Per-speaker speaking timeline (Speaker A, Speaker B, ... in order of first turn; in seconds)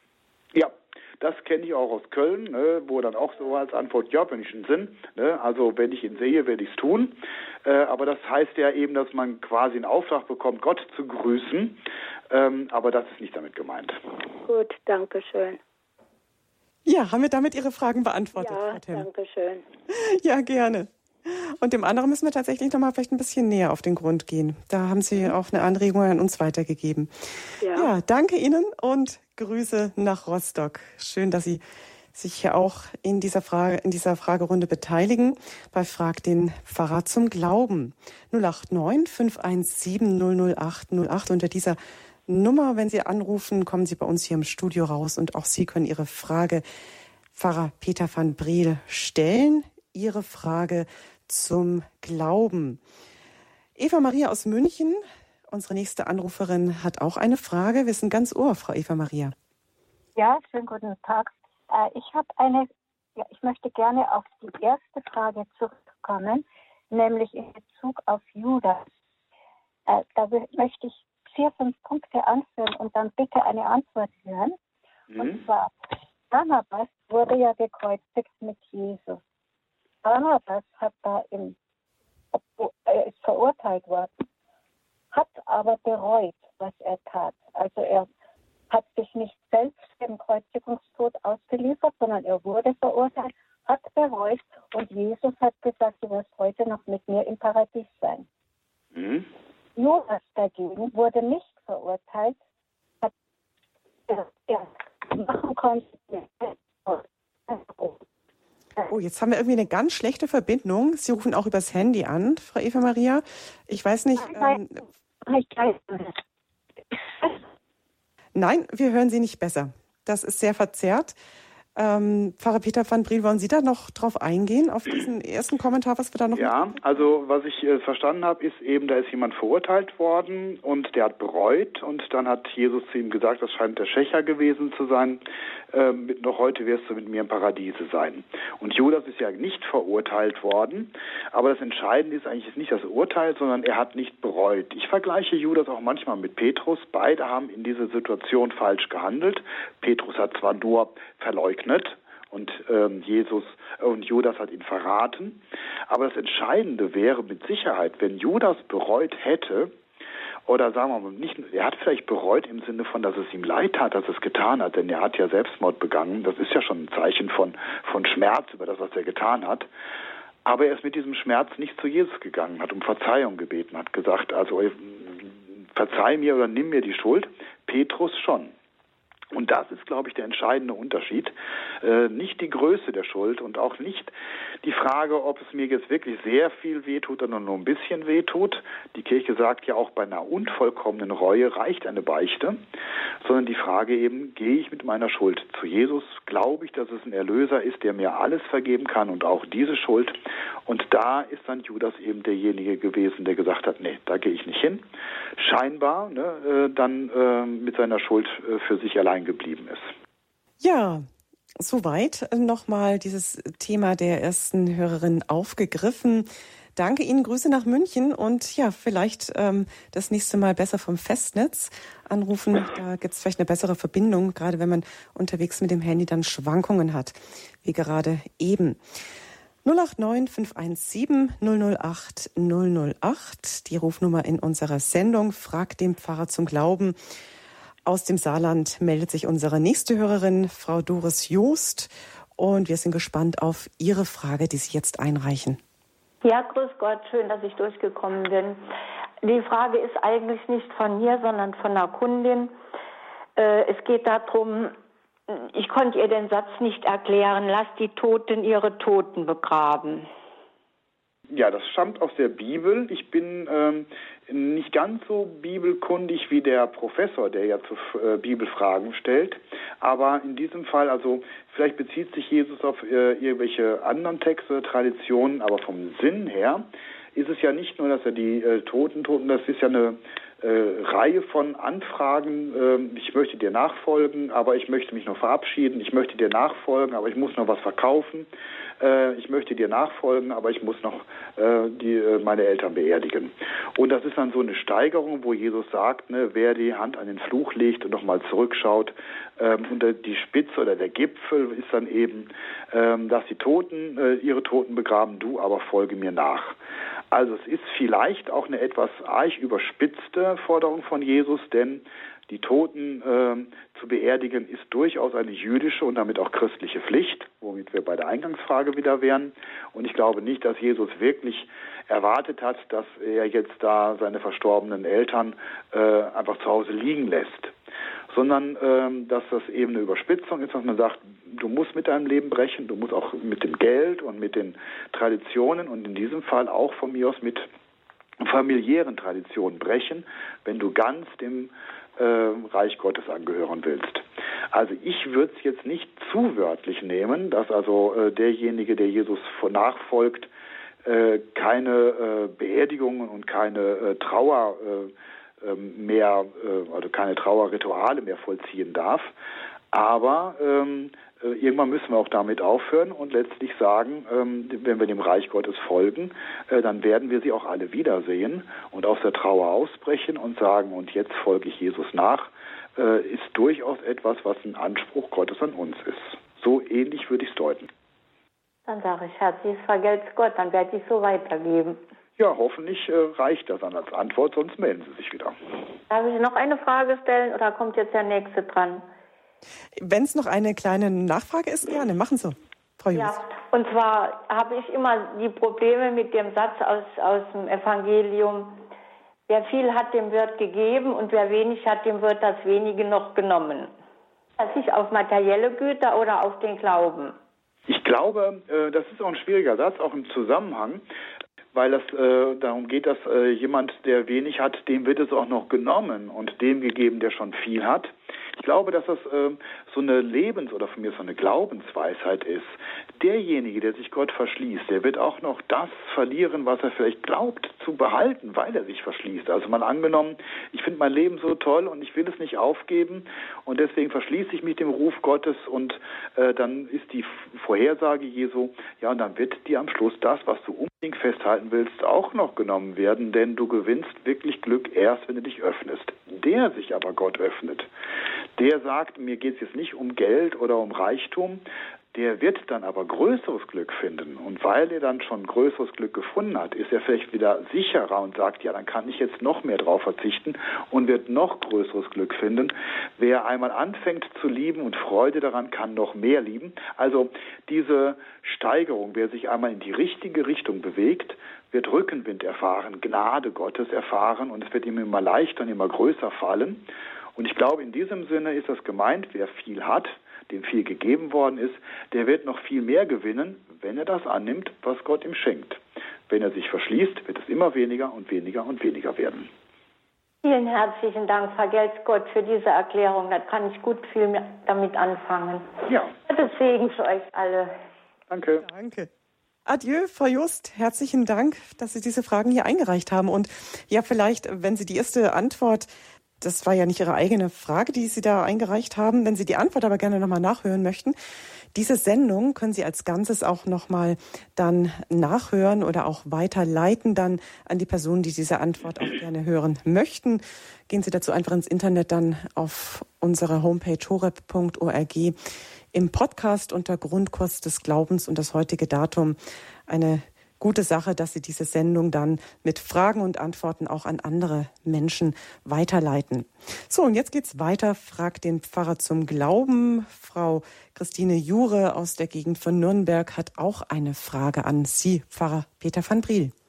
Speaker A: 0.5-14.0, 75.1-75.4, 99.0-99.2, 126.3-135.2, 135.7-159.7, 160.5-169.7, 170.4-178.5, 179.3-192.6, 193.2-204.8, 205.4-209.9, 261.3-288.3, 288.8-306.6, 307.1-327.5, 328.1-337.5, 338.2-350.3, 350.9-359.1, 359.7-377.7, 382.2-385.4, 407.7-410.8, 411.5-447.7, 448.4-451.4, 451.9-476.6, 477.2-489.3, 495.7-496.4, 498.1-498.4
Speaker B: 14.4-15.6, 18.4-19.6, 27.6-27.9
Speaker C: 16.9-19.1, 19.9-27.1, 27.7-31.6, 32.1-46.6, 47.4-52.8, 53.8-59.3, 108.9-114.8, 118.3-121.2, 121.8-126.8, 210.6-211.1, 211.6-228.8, 229.6-237.0, 237.9-245.6, 389.8-393.2, 498.4-498.9, 499.5-505.7, 506.2-511.0, 511.5-525.2, 525.7-546.3
Speaker D: 60.2-68.8, 69.9-74.6, 75.1-75.7, 76.3-79.2, 80.0-81.6, 82.3-84.1, 85.1-88.1, 88.7-98.3, 99.8-102.4, 104.1-108.0, 114.2-116.2, 116.9-117.4
Speaker E: 246.2-248.6, 249.2-252.5, 253.4-254.8, 255.3-260.1, 378.7-381.8, 385.9-388.9, 392.9-398.6, 399.3-403.7, 404.4-407.2, 490.2-497.5